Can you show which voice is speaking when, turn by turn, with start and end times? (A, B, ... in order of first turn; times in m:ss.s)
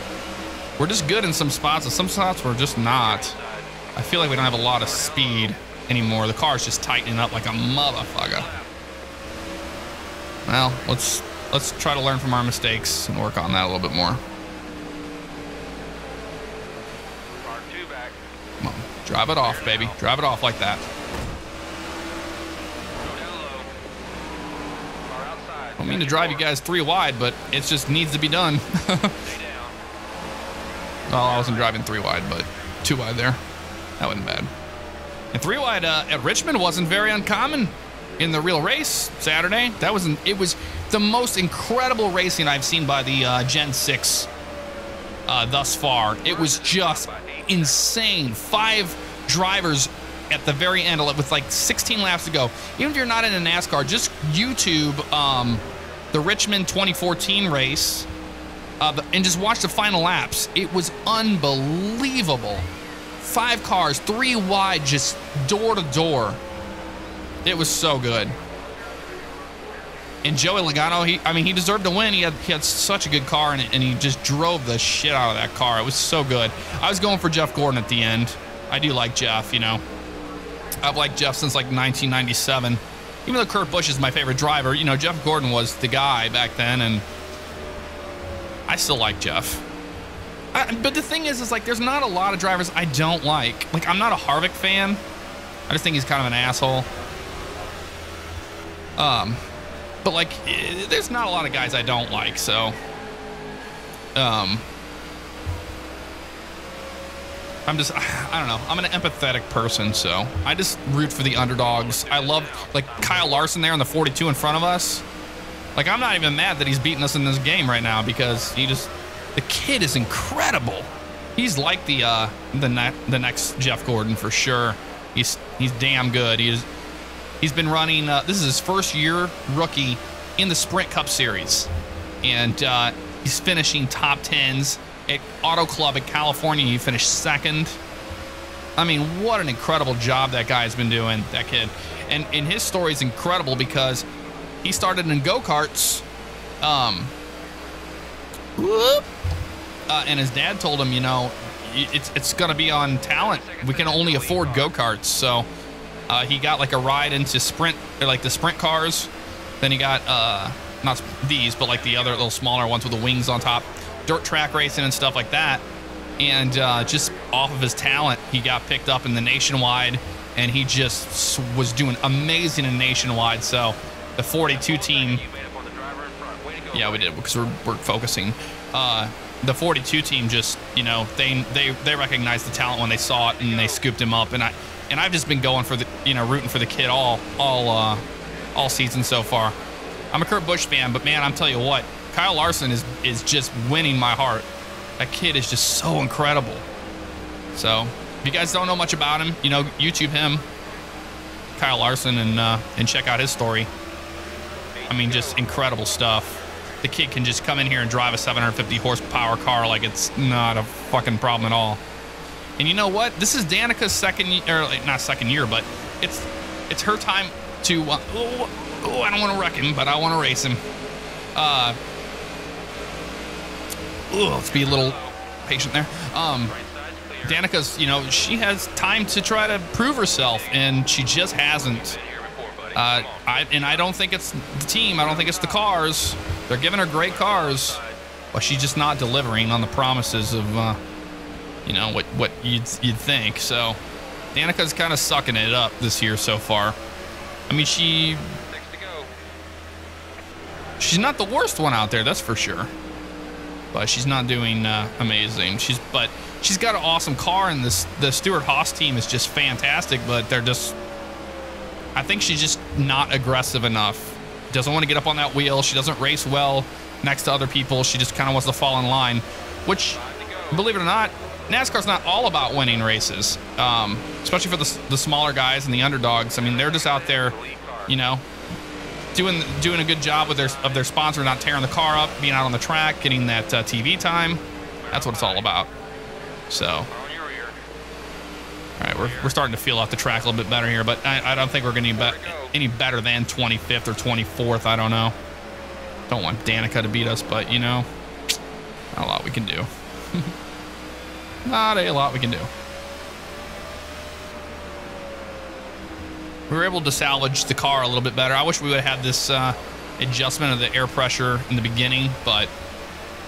0:00.8-0:03.3 A
0:02.9-0:03.7 B
0:03.9-0:08.5 A
0:04.8-0:05.5 B
0:08.3-0:08.7 B
0:10.4-0:14.2 A
0:17.4-0:18.2 B
0:18.6-0:20.8 A
0:19.4-0:20.0 B
0:23.0-0:23.7 B
0:25.1-0:26.5 B
0:25.8-0:29.2 A
0:29.2-0:29.8 B
0:31.1-0:33.4 A
0:34.0-0:34.5 A
0:35.3-0:44.3 A
0:45.3-0:58.1 A
0:46.2-0:47.9 B
0:58.8-1:02.7 A
1:03.2-1:06.4 A
1:07.4-1:08.4 A
1:10.2-1:19.8 A
1:20.8-1:27.0 A
1:28.7-1:29.6 A
1:30.5-1:35.0 A
1:35.7-1:36.9 A
1:39.0-1:39.4 A
1:40.0-1:42.8 A
1:44.2-1:44.6 A
1:47.7-1:55.0 A
1:51.6-1:53.5 B
1:55.7-2:06.6 A
2:07.4-2:11.7 A
2:12.2-2:17.8 A
2:18.8-2:24.0 A
2:24.6-2:26.0 A
2:26.6-2:27.1 A
2:28.6-2:29.1 A
2:29.9-2:35.5 A
2:33.1-2:34.8 B
2:36.1-2:45.6 A
2:46.2-2:55.2 A
2:54.4-2:57.4 B
2:56.7-3:08.0 A
3:03.4-3:03.8 B
3:08.5-3:09.6 A
3:10.1-3:14.4 A
3:15.0-3:16.6 A
3:17.5-3:20.4 A
3:21.6-3:23.7 A
3:24.8-3:25.6 B
3:24.9-3:31.8 A
3:32.6-3:40.6 A
3:41.4-3:41.8 A
3:44.1-3:46.5 A
3:44.4-3:45.2 B
3:46.4-3:47.5 B
3:47.2-3:51.9 A
3:50.2-3:50.8 B
3:51.3-3:53.9 B
3:52.7-3:57.8 A
3:55.0-3:55.6 B
3:57.0-3:58.0 B
3:58.3-4:00.8 A
4:01.6-4:03.8 A
4:04.3-4:06.8 A
4:07.5-4:08.4 A
4:08.5-4:09.1 B
4:10.8-4:12.7 A
4:13.7-4:20.8 A
4:22.0-4:30.0 A
4:29.9-4:30.8 B
4:30.5-4:37.3 A
4:36.4-4:37.9 B
4:37.9-4:38.2 A
4:39.1-4:45.7 A
4:44.9-4:45.5 B
4:46.5-4:46.9 A
4:46.9-4:47.6 B
4:48.8-4:55.2 A
4:48.9-4:49.4 B
4:51.9-4:52.5 B
4:56.1-4:57.9 A
4:58.9-5:00.3 A
5:01.4-5:02.5 A
5:06.5-5:12.5 A